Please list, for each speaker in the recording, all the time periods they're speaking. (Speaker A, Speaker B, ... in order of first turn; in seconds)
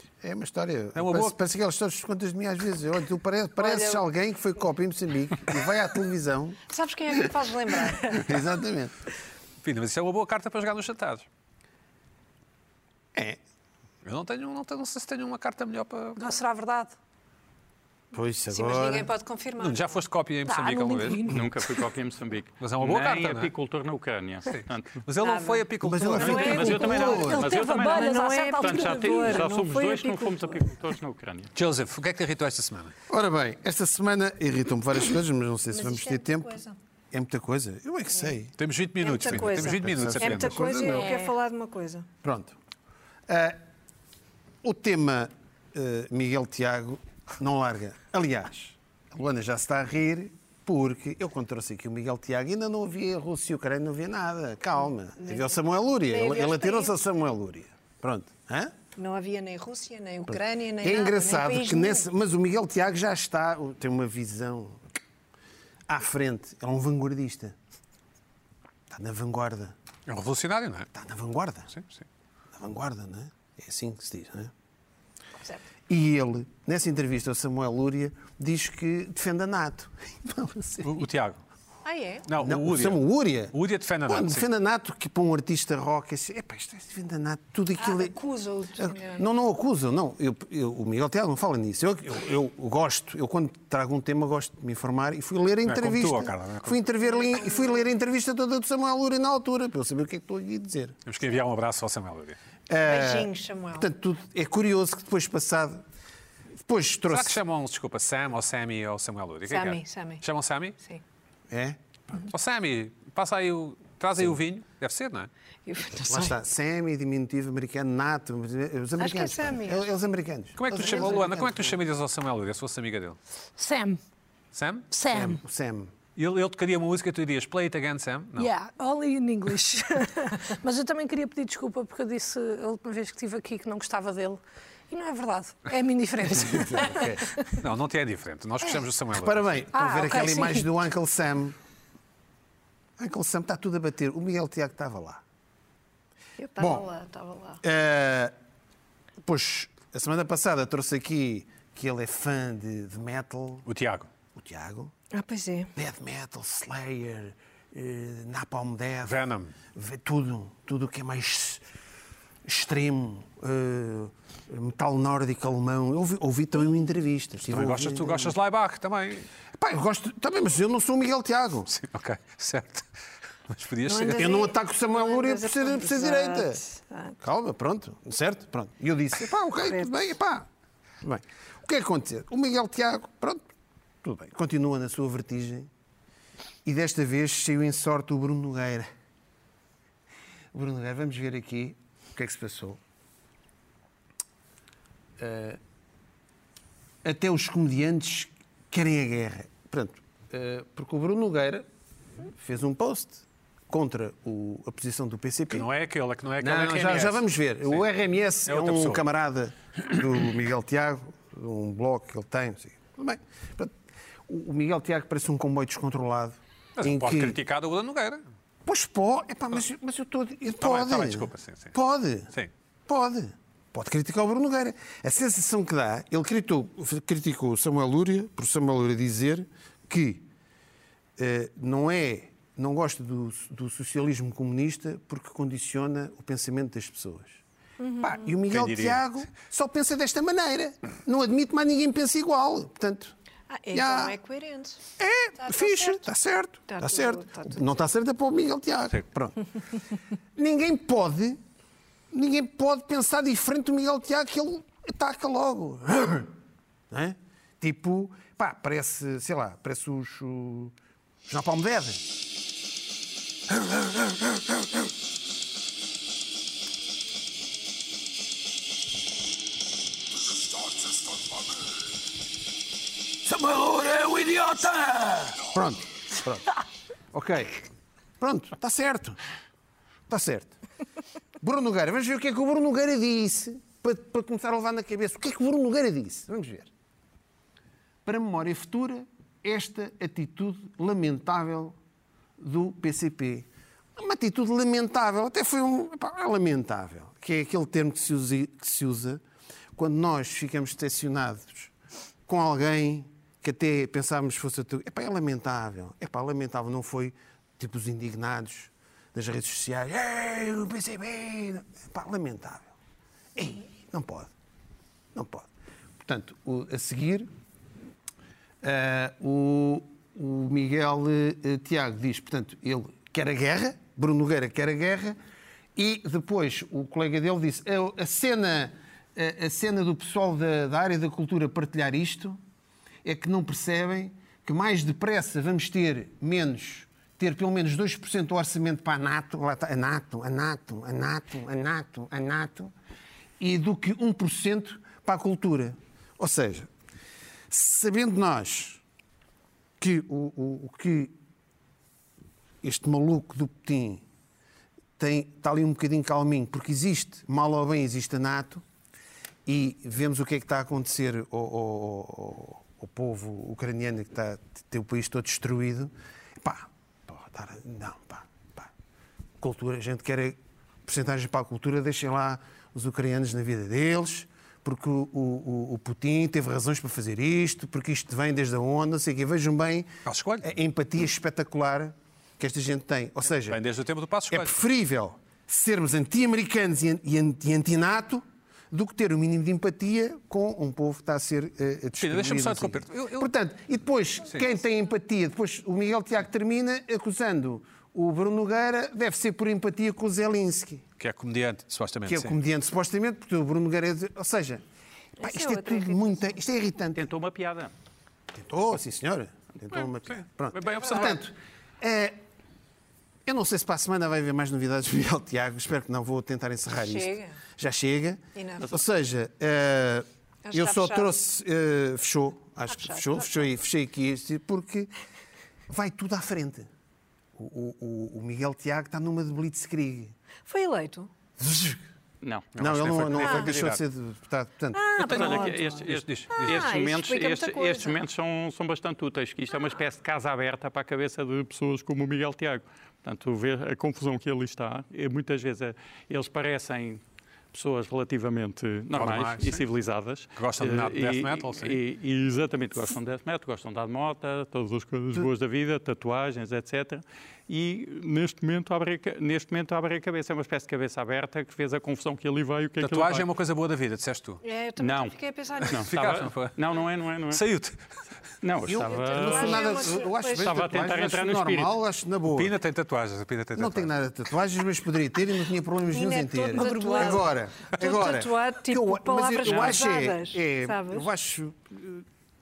Speaker A: 0.2-6.6, 8.0-8.9, 13.1-13.4, 18.1-19.1, 25.8-27.3, 33.1-36.5, 37.1-38.5, 39.2-41.1, 42.2-42.5, 43.3-43.6, 44.6-58.7, 60.3-64.8, 65.9-67.5, 68.9-69.7, 70.9-71.7, 72.5-74.5, 75.9-81.0, 82.4-88.2, 88.8-101.0, 102.7-105.8, 106.6-107.4, 111.5-112.3, 116.0-121.8, 125.1-125.9, 136.4-137.3, 139.1-141.6, 143.0-145.2, 146.6-146.9, 147.6-148.3, 149.2-153.7, 154.3-154.9, 155.8-159.2, 159.7-161.6, 162.4-168.3, 169.5-171.7, 174.1-176.6, 177.2-180.5, 181.0-183.5, 184.0-185.7, 186.6-188.9, 190.5-192.8, 195.2-195.6, 197.0-201.7, 202.3-205.7, 206.4-213.7, 214.3-217.4, 218.6-222.3, 222.9-230.3, 231.2-237.4, 238.0-243.1, 243.7-244.2, 245.0-249.4, 250.3-251.4, 252.1-256.3, 256.9-260.7, 261.3-262.0, 263.5-264.6, 273.2-276.5, 277.1-277.6, 278.2-279.2, 280.1-280.6, 281.4-286.7, 288.0-291.8, 292.4-299.2, 299.8-301.7, 302.3-312.7, 313.4-314.3, 315.1-315.5, 316.0-317.3, 318.6-325.2, 325.8-332.4, 333.0-342.7, 343.4-346.7, 347.5-348.8, 349.8-351.1, 352.6-354.0, 355.0-358.6, 359.4-368.7, 369.4-383.6, 384.3-400.8, 402.1-404.6, 405.2-407.1, 408.3-412.2, 413.2-424.9, 425.7-426.7, 427.4-430.1, 431.4-431.8, 432.6-434.8, 468.6-472.5, 473.6-482.1
Speaker B: 0.9-1.4, 9.6-11.2, 14.0-16.2, 19.6-21.4, 22.6-23.5, 24.4-27.4, 31.5-32.9, 38.6-40.9, 70.1-70.9, 71.7-72.0, 80.8-81.4, 82.2-84.5, 95.6-96.8, 101.0-102.4, 107.1-110.8, 112.2-115.3, 120.6-123.2, 124.5-124.9, 126.2-128.5, 137.6-139.7, 153.7-154.1, 159.0-159.5, 167.4-169.3, 171.7-172.9, 173.5-174.3, 205.5-207.8, 208.4-209.0, 216.8-218.2, 220.6-221.7, 238.5-239.0, 380.1-380.5, 383.5-384.6, 392.0-393.3, 401.0-402.4, 410.1-411.2, 432.5-433.8, 435.0-436.7, 448.9-449.6, 450.3-451.8, 462.8-464.4, 465.6-466.6, 467.3-467.8, 472.3-473.9
Speaker C: 3.6-4.0, 6.7-8.4, 18.5-20.0, 25.2-30.7, 35.7-36.8, 39.0-42.1, 55.2-57.0, 59.0-62.0, 81.8-82.3, 87.8-89.2, 97.1-97.8, 102.8-103.9, 109.5-110.2, 115.7-116.4, 119.0-119.8, 120.9-121.2, 146.4-147.6, 155.1-155.7, 173.8-177.2, 179.6-179.9, 237.8-238.3, 243.5-244.8, 245.4-246.0, 246.7-247.7, 405.2-406.3, 416.8-417.4, 418.4-418.8, 420.4-421.1, 422.7-423.3, 430.5-431.1, 433.2-433.5, 434.7-438.0, 464.4-465.8, 468.9-470.5, 475.9-481.1
Speaker D: 16.1-16.9, 20.4-21.5, 27.0-29.4, 40.9-41.3, 123.6-124.0, 124.9-125.4, 128.4-137.5, 139.7-140.7, 476.5-477.2
Speaker E: 21.3-25.0, 26.2-31.5, 406.9-407.7, 432.2-432.5, 435.0-447.0, 447.5-463.3, 464.8-465.1, 465.7-467.4, 468.4-471.7, 479.4-479.8